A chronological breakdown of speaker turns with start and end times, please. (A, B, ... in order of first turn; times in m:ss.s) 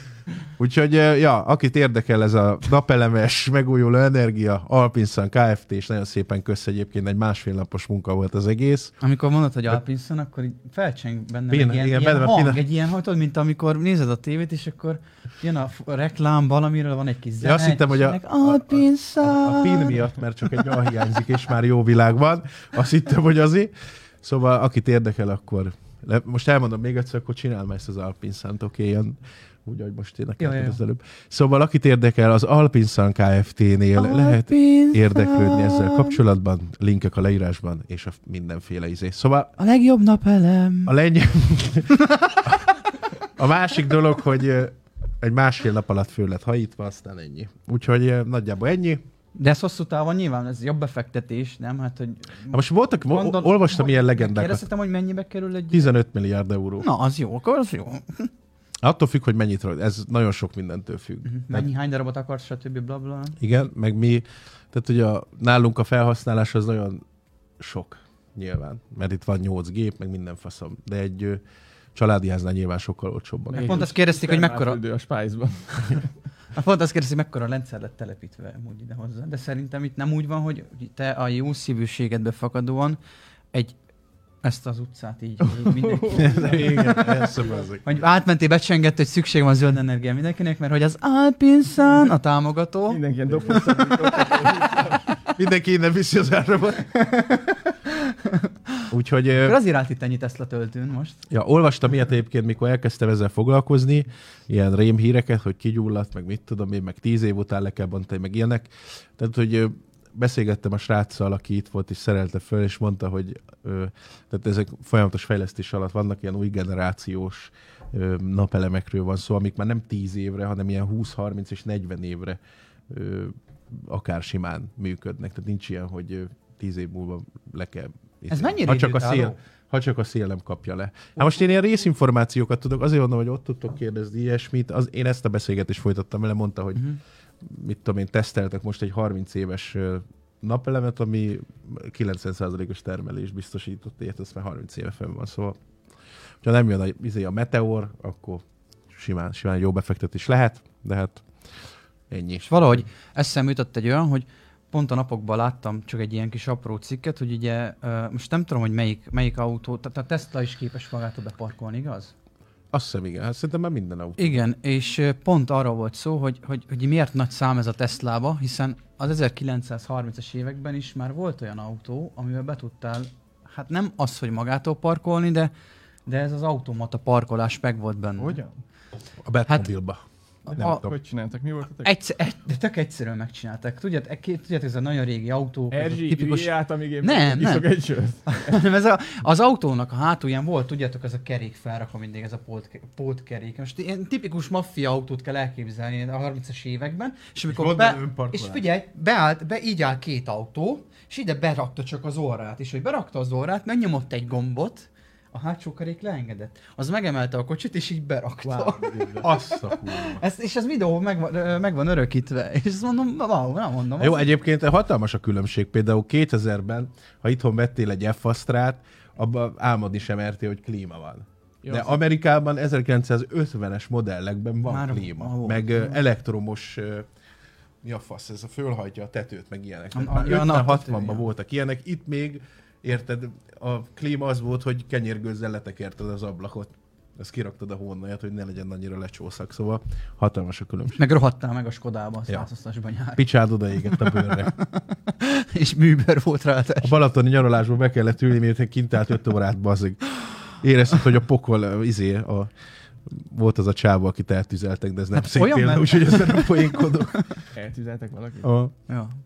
0:00.6-0:08.9 A
0:09.0-0:20.1 B
0:11.5-0:12.6 A
0:17.4-0:39.5 A
0:30.4-0:30.8 B
0:34.0-0:36.2 B
0:39.6-0:40.9 B
0:40.9-0:42.7 A
0:43.4-0:49.0 A
0:49.4-0:55.9 B
0:52.5-0:54.6 A
0:55.7-0:56.9 A
0:56.8-0:58.3 B
0:58.8-1:01.7 A
1:01.2-1:03.4 B
1:03.4-1:07.0 A
1:07.6-1:11.4 A
1:12.0-1:13.9 A
1:13.5-1:16.1 C
1:13.6-1:14.8 B
1:16.5-1:23.0 B
1:24.4-1:27.0 B
1:25.6-1:27.7 C
1:26.1-1:27.9 A
1:27.8-1:34.6 B
1:32.9-1:35.0 C
1:35.3-1:36.9 A
1:36.9-1:38.8 B
1:38.9-1:39.6 A
1:39.4-1:41.2 B
1:41.3-2:16.9 A
2:08.3-2:09.4 B
2:17.4-2:25.6 A
2:26.4-2:31.2 A
2:32.1-2:32.8 A
2:32.5-2:42.1 B
2:42.7-2:44.4 A
2:44.2-2:55.5 B
2:56.1-2:58.4 B
2:58.2-2:58.6 C
2:59.2-3:00.0 A
3:00.5-3:00.8 B
3:00.5-3:00.9 A
3:00.6-3:01.9 C
3:01.8-3:07.7 B
3:05.7-3:08.6 C
3:08.3-3:34.3 B
3:17.5-3:18.6 A
3:28.4-3:29.2 C
3:29.2-3:30.2 A
3:34.0-3:47.1 A
3:41.6-3:42.0 C
3:44.6-3:45.8 B
3:47.8-4:01.0 A
3:50.0-3:51.3 B
4:01.0-4:03.2 B
4:03.2-4:04.5 A
4:03.8-4:07.0 B
4:06.8-4:12.5 A
4:13.1-4:17.3 A
4:15.2-4:16.9 B
4:17.5-4:18.5 C
4:18.4-4:18.7 A
4:18.9-4:19.2 B